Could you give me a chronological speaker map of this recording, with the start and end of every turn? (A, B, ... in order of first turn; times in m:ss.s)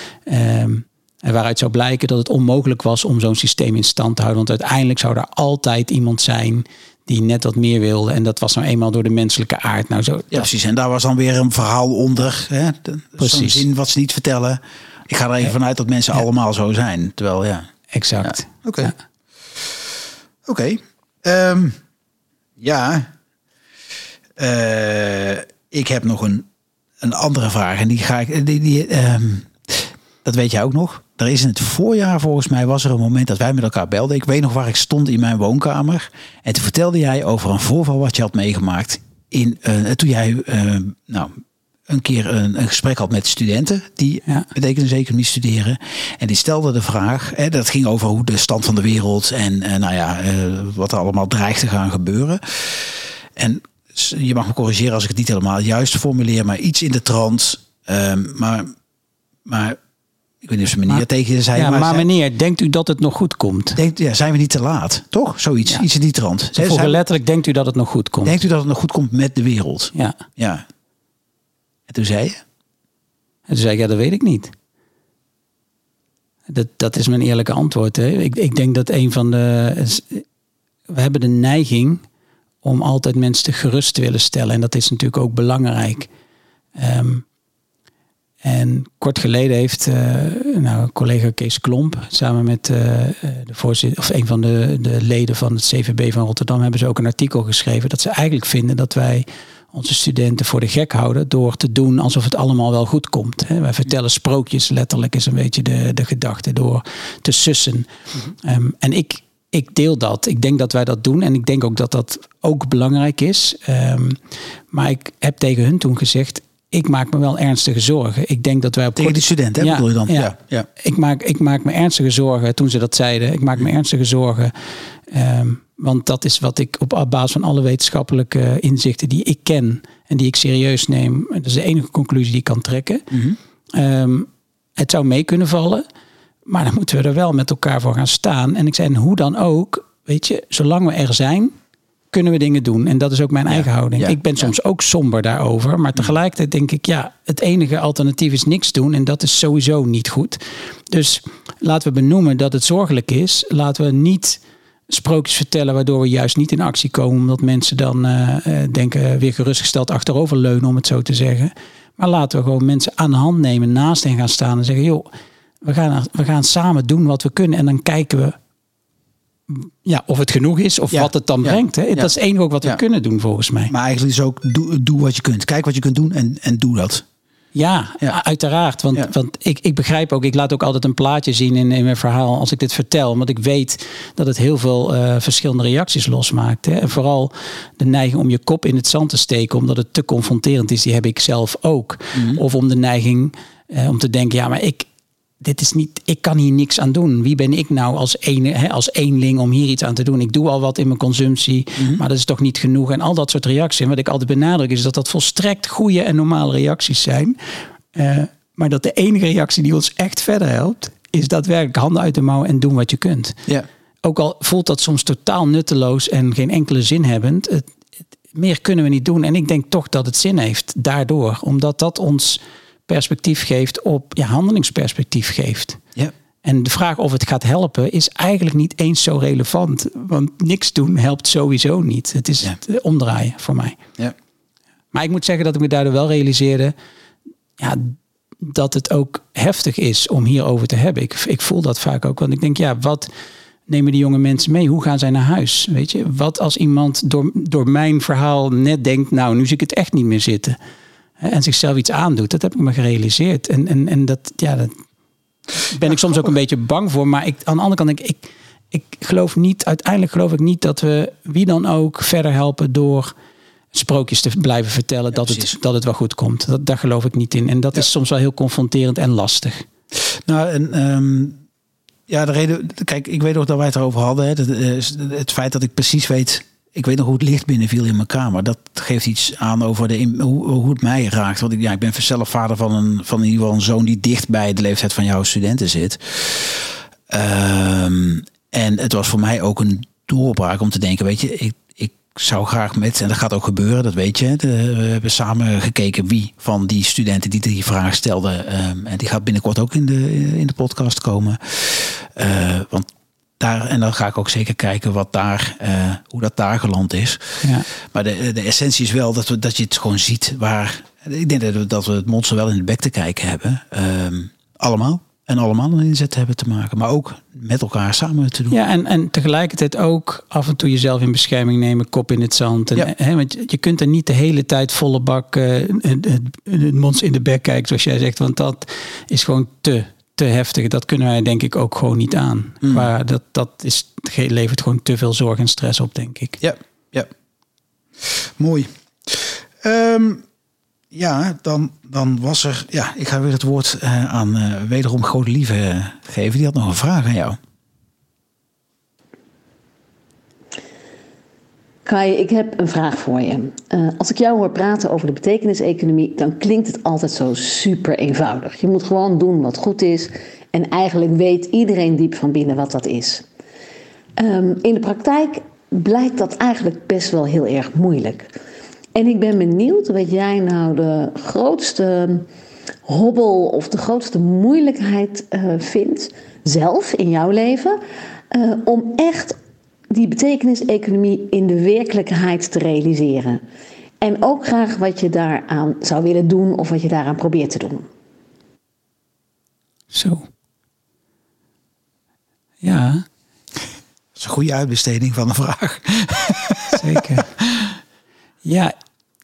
0:00.3-0:10.5 A
0:10.3-0:17.7 B
0:13.2-0:13.7 A
0:17.9-0:19.0 A
0:18.2-0:18.9 B
0:19.5-0:19.8 B
0:20.4-0:21.8 B
0:22.6-0:23.1 B
0:24.4-0:26.5 B
0:27.0-0:58.7 B
0:59.4-0:59.8 B
1:00.4-1:02.1 B
1:01.6-1:03.8 A
1:03.8-1:07.0 B
1:06.6-1:08.4 A
1:08.2-1:10.6 B
1:11.9-1:12.4 B
1:13.5-1:14.5 A
1:16.5-1:20.2 A
1:20.9-1:22.0 A
1:22.6-1:26.1 A
1:26.8-1:27.2 A
1:28.4-1:47.9 A
1:48.4-1:54.2 A
1:54.7-2:04.5 A
1:59.0-2:00.7 B
2:05.1-2:13.1 A
2:13.1-2:13.4 B
2:13.7-2:15.8 A
2:16.5-2:21.6 A
2:22.1-2:45.1 A
2:23.5-2:24.5 B
2:45.6-2:48.4 A
2:49.5-2:53.7 A
2:50.9-2:52.1 B
2:53.7-2:57.0 B
2:57.5-3:14.9 A
3:12.1-3:12.4 B
3:15.4-3:27.4 A
3:21.8-3:22.0 B
3:27.9-3:33.4 A
3:34.0-3:37.7 A
3:38.3-3:45.8 A
3:46.4-3:53.8 A
3:54.9-3:56.7 A
3:57.6-4:03.1 A
4:03.7-4:10.6 A
4:11.2-4:14.8 A
4:15.6-4:23.1 A
4:15.8-4:16.3 B
4:23.7-4:29.7 A
4:25.1-4:25.5 B
4:30.0-4:31.4 B
4:32.1-5:02.9 B
5:03.4-5:18.6 B
5:07.4-5:07.7 A
5:18.5-5:36.4 A
5:32.6-5:32.9 B
5:36.4-5:37.1 B
5:38.0-5:40.2 B
5:40.9-5:47.4 B
5:51.9-6:03.2 C
6:04.2-6:08.3 C
6:09.0-6:12.3 C
6:12.9-6:17.8 C
6:18.3-6:19.4 C
6:19.9-6:23.4 C
6:24.0-6:27.9 C
6:29.9-6:30.3 A
6:32.6-6:33.0 A
6:34.2-6:37.8 B
6:36.7-6:37.3 A
6:38.4-6:38.7 A